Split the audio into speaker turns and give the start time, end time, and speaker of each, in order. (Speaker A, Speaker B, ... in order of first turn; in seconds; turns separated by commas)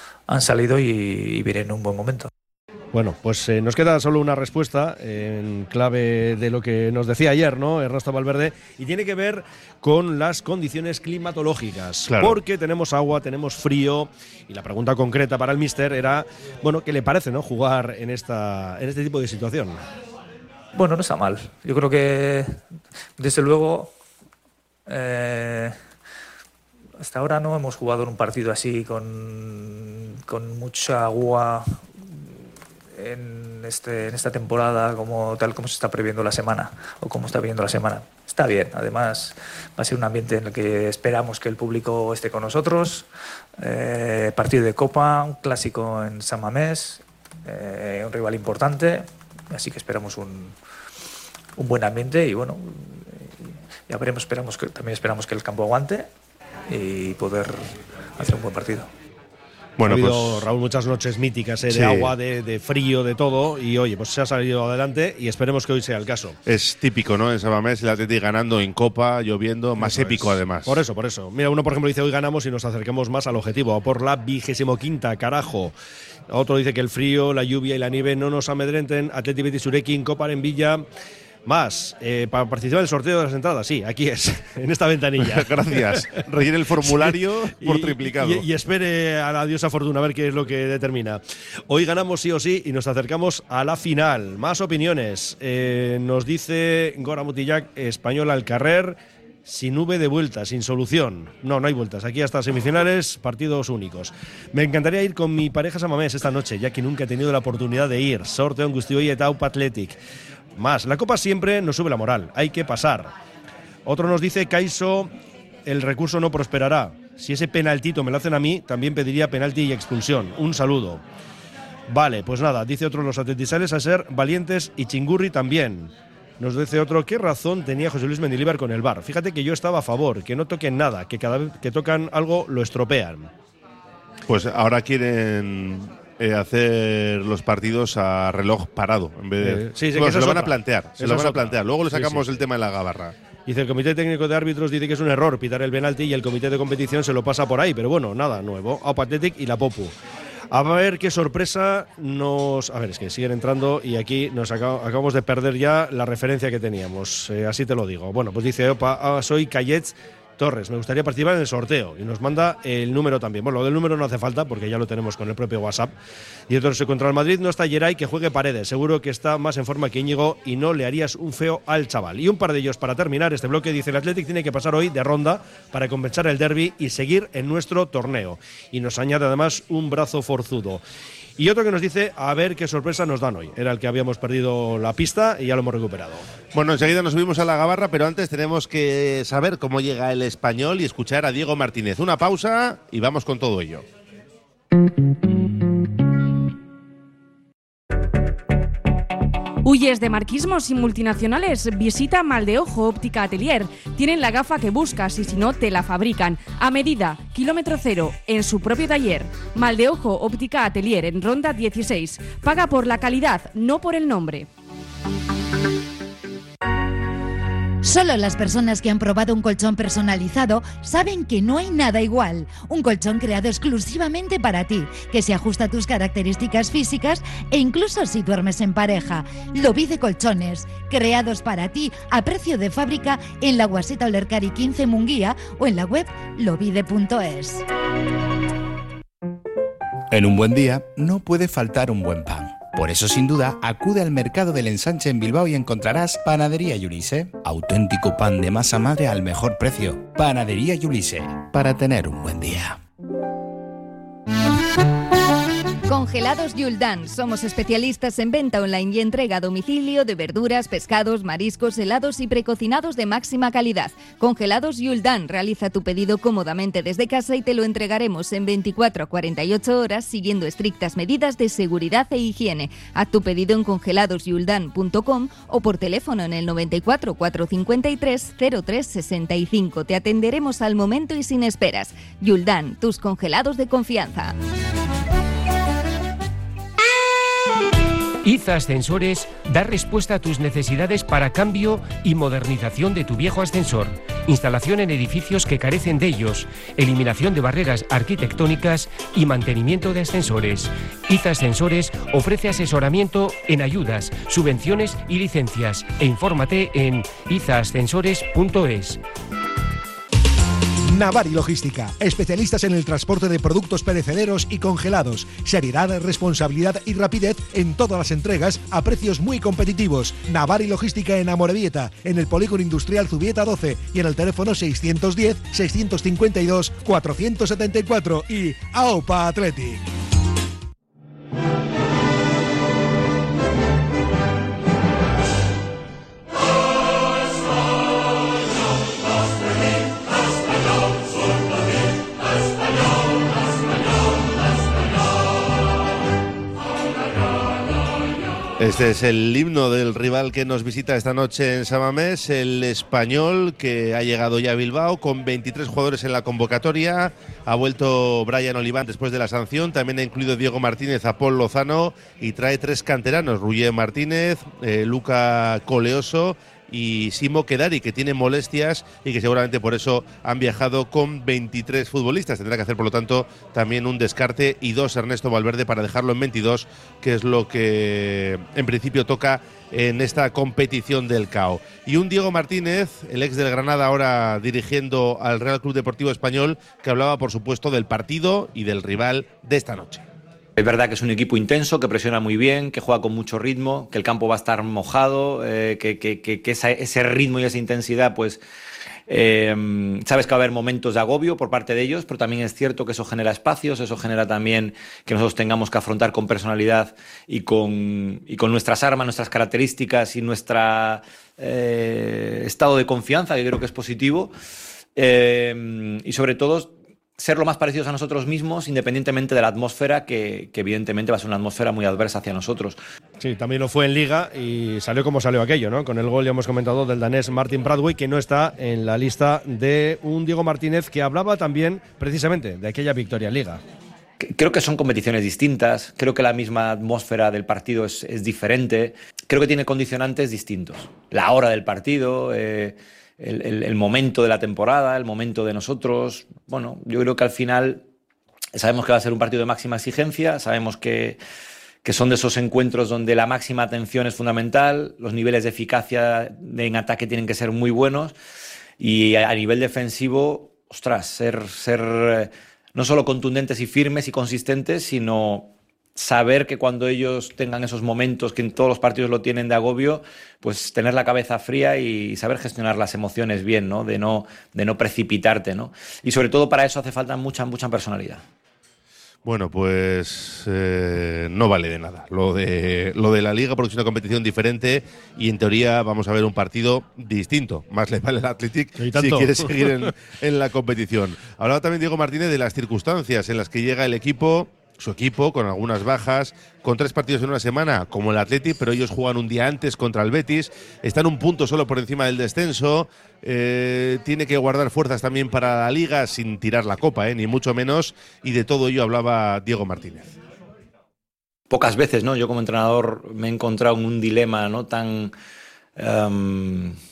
Speaker A: 0.3-2.3, Speaker B: 2.9-19.8, Speaker C: 12.1-12.4, Speaker A: 20.7-22.6, Speaker A: 23.2-23.9, Speaker A: 24.9-25.8, Speaker A: 27.0-31.8, Speaker A: 33.0-43.0, Speaker A: 43.6-50.5, Speaker A: 51.6-56.1, Speaker A: 56.7-58.9, Speaker C: 59.8-60.5, Speaker B: 59.8-66.4, Speaker C: 61.7-62.1, Speaker C: 66.5-70.8, Speaker B: 69.8-75.7, Speaker B: 76.3-80.8, Speaker B: 81.5-86.1, Speaker C: 85.2-88.4, Speaker B: 86.8-110.0, Speaker B: 110.5-113.1, Speaker B: 113.8-115.1, Speaker B: 115.7-121.0, Speaker B: 121.9-133.3, Speaker C: 134.3-143.1, Speaker B: 139.4-142.4, Speaker B: 143.4-149.9, Speaker B: 150.5-165.9, Speaker B: 166.5-180.8, Speaker B: 181.4-186.2, Speaker C: 186.5-193.8, Speaker D: 199.6-214.5, Speaker E: 217.8-237.6, Speaker F: 240.1-252.8, Speaker G: 255.9-284.3, Speaker H: 288.2-309.0, Speaker I: 310.9-329.8, Speaker C: 348.6-390.0, Speaker J: 390.6-398.4, Speaker J: 399.1-414.3, Speaker J: 414.9-422.8, Speaker B: 423.2-433.6, Speaker J: 434.2-447.8, Speaker J: 448.5-451.2, Speaker J: 451.8-458.2, Speaker J: 458.8-478.2, Speaker C: 479.2-510.1, Speaker B: 488.8-489.9, Speaker J: 511.5-515.1, Speaker J: 515.8-516.8